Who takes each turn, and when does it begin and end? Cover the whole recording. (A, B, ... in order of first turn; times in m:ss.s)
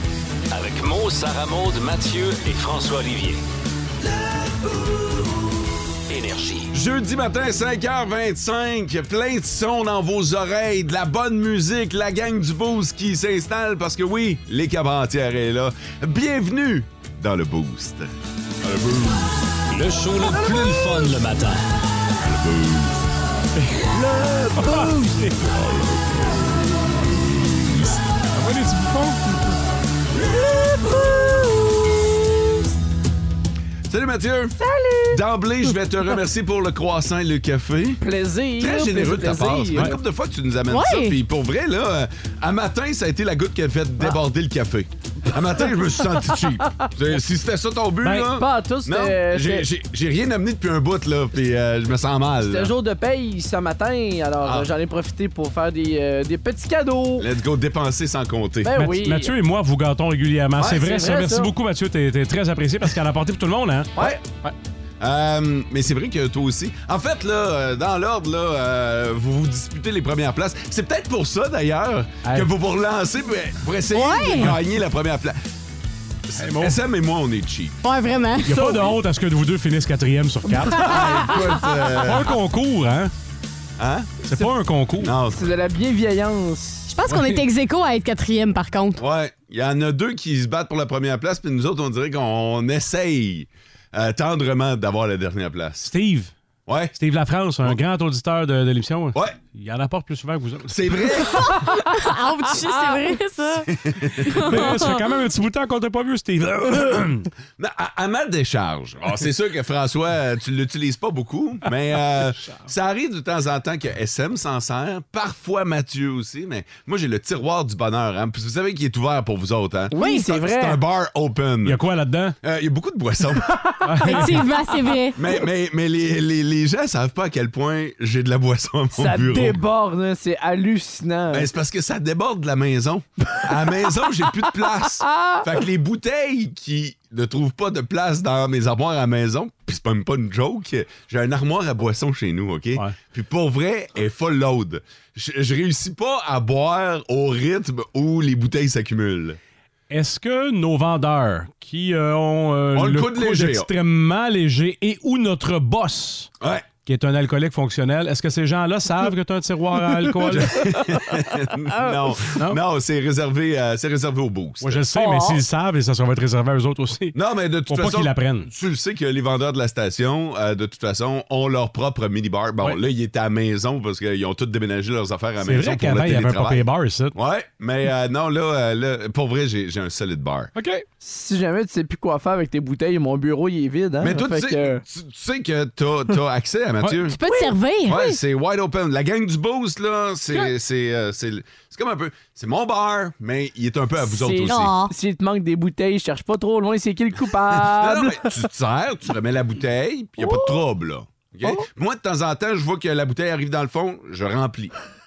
0:00.5-0:03.4 A
0:06.1-0:06.7 A
0:06.7-0:18.1 B
0:18.6-0:19.4 B
0:19.7-0:21.6 A
0:22.2-0:23.0 B
0:23.9-0:25.2 C
0:24.6-0:25.4 D
0:25.5-0:26.4 B
0:27.2-0:27.7 B
0:28.3-0:29.3 D
0:30.7-0:31.4 C
0:33.9-0:34.6 B
0:34.6-0:35.2 C
0:35.1-0:38.0 B
0:38.0-0:39.9 C
0:38.6-0:52.7 B
0:40.7-0:41.2 E
0:48.0-0:49.7 C
0:52.4-0:57.2 C
0:54.4-0:54.7 B
0:57.2-0:58.7 B
0:58.6-0:59.3 C
0:58.7-1:04.5 D
1:00.6-1:01.5 C
1:04.0-1:04.2 C
1:05.0-1:15.4 B
1:12.2-1:12.5 D
1:13.9-1:14.5 E
1:16.3-1:17.8 B
1:16.4-1:16.8 D
1:17.8-1:18.6 E
1:18.4-1:21.2 D
1:18.4-1:19.0 C
1:20.8-1:22.4 B
1:22.0-1:23.1 D
1:23.8-1:24.2 B
1:24.2-1:25.1 D
1:25.0-1:25.4 B
1:25.3-1:26.9 C
1:26.9-1:29.0 E
1:27.1-1:27.4 D
1:29.0-1:35.9 B
1:35.8-1:36.3 D
1:36.7-1:37.0 B
1:37.0-1:41.1 D
1:39.1-1:39.4 B
1:40.7-1:41.6 B
1:41.4-1:43.7 E
1:43.7-1:44.7 B
1:44.2-1:45.1 E
1:44.4-1:47.3 D
1:47.6-2:01.8 B
1:59.9-2:00.8 C
2:01.6-2:02.4 D
2:02.4-2:03.7 B
2:03.5-2:04.3 C
2:03.8-2:04.5 D
2:04.0-2:05.2 E
2:05.2-2:09.6 B
2:08.9-2:11.5 C
2:11.3-2:29.4 B
2:15.1-2:15.4 C
2:29.9-2:36.3 D
2:32.7-2:33.7 B
2:36.4-2:36.7 B
2:36.8-2:40.6 D
2:40.3-2:44.9 B
2:44.6-2:47.2 D
2:44.9-2:45.4 C
2:47.1-3:00.5 B
2:47.7-2:48.5 D
2:55.4-2:57.2 D
3:00.5-3:00.8 D
3:01.0-3:04.8 C
3:04.0-3:07.2 B
3:07.0-3:08.2 E
3:07.8-3:14.7 B
3:14.0-3:18.3 C
3:14.5-3:14.9 E
3:17.5-3:24.7 B
3:20.2-3:20.6 C